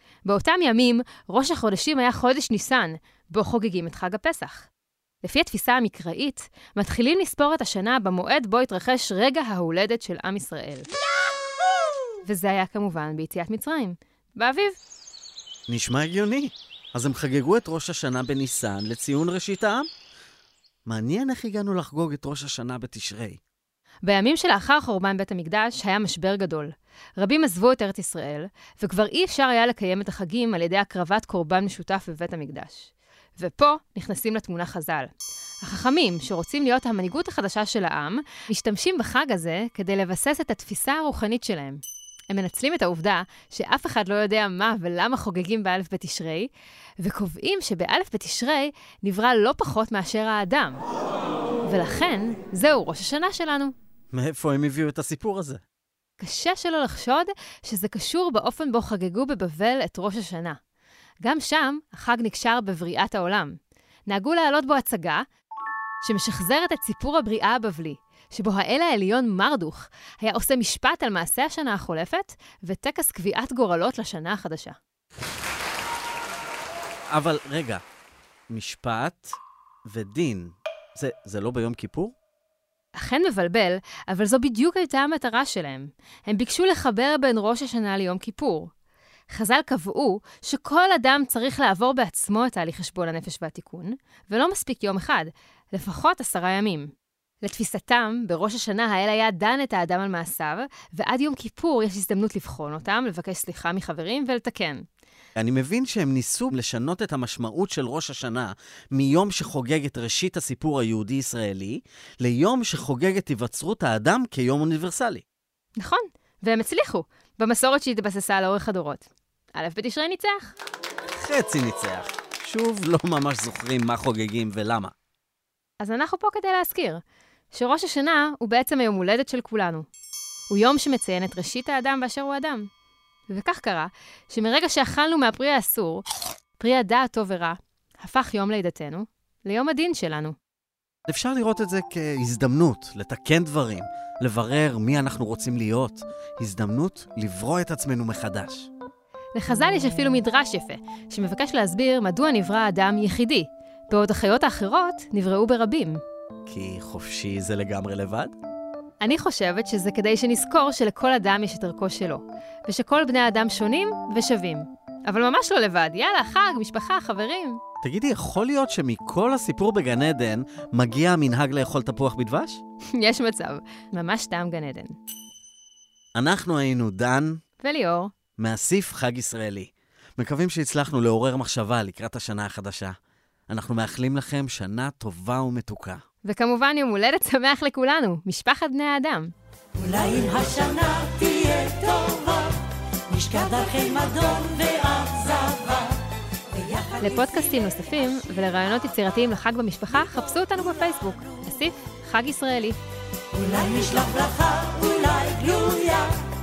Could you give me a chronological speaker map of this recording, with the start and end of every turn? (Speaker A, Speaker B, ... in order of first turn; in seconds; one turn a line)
Speaker A: 0.2-4.7
Speaker A: 5.2-10.8
Speaker A: 12.2-14.8
Speaker B: 15.7-19.9
Speaker B: 20.9-23.4
Speaker A: 24.1-35.1
Speaker A: 35.6-46.5
Speaker A: 47.0-50.8
Speaker A: 51.6-53.7
Speaker B: 54.1-55.6
Speaker A: 56.2-60.6
Speaker A: 61.2-63.5
Speaker A: 64.1-65.2
Speaker A: 66.0-74.8
Speaker B: 77.1-77.8
Speaker B: 78.5-79.4
Speaker B: 79.9-82.1
Speaker A: 83.0-88.7
Speaker A: 89.3-96.9
Speaker A: 97.4-104.8
Speaker B: 105.3-115.2
Speaker A: 115.8-120.5
Speaker B: 121.1-124.9
Speaker A: 125.8-129.8
Speaker A: 130.5-132.7
Speaker A: 133.3-136.0
Speaker A: 136.6-140.3
Speaker B: 141.1-148.7
Speaker A: 149.3-156.0
Speaker B: 156.4-158.3
Speaker A: 159.0-167.6
Speaker B: 167.8-172.6
Speaker A: 172.9-174.9
Speaker B: 176.2-177.4
Speaker A: 177.6-178.1
Speaker B: 178.4-182.9
Speaker B: 183.5-186.0
Speaker A: 186.3-189.3
Speaker C: 189.9-192.3
Speaker C: 193.4-194.3
Speaker B: 194.4-194.8
Speaker A: 196.9-202.8
Speaker C: 203.3-206.2